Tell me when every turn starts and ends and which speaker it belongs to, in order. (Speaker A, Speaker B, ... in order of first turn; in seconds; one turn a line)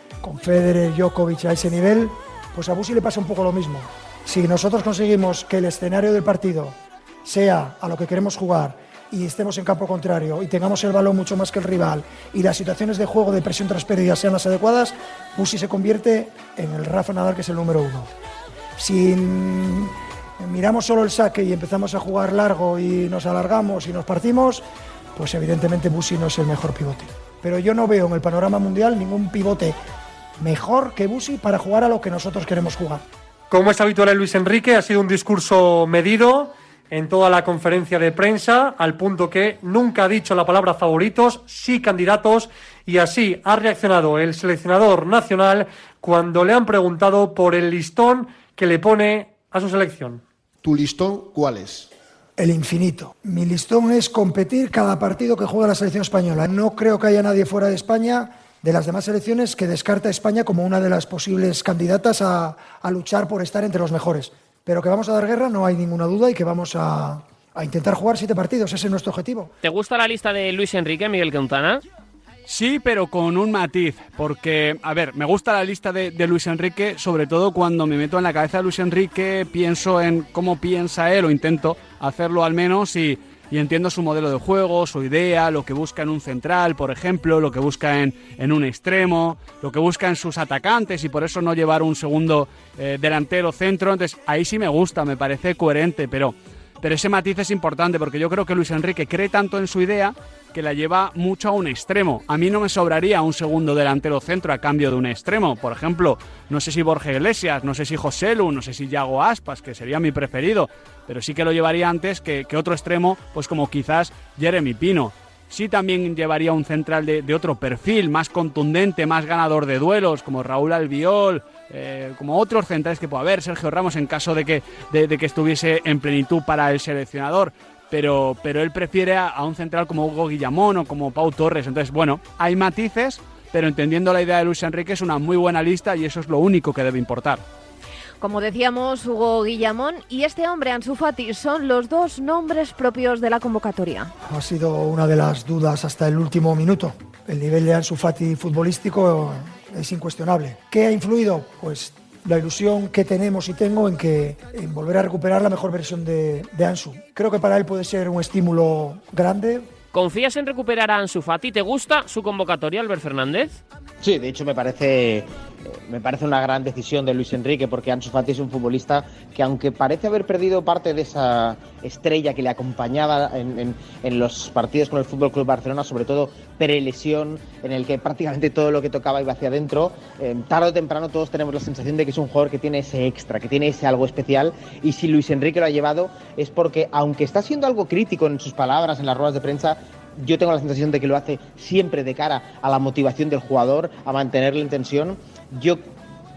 Speaker A: 0.2-18.1
Speaker A: 18.8-29.8
Speaker A: 30.4-33.0
Speaker B: 33.5-50.2
Speaker A: 52.4-69.5
Speaker C: 69.6-71.8
Speaker D: 72.5-137.4
Speaker E: 138.2-144.1
Speaker A: 144.2-159.7
Speaker C: 159.9-163.6
Speaker F: 164.0-195.9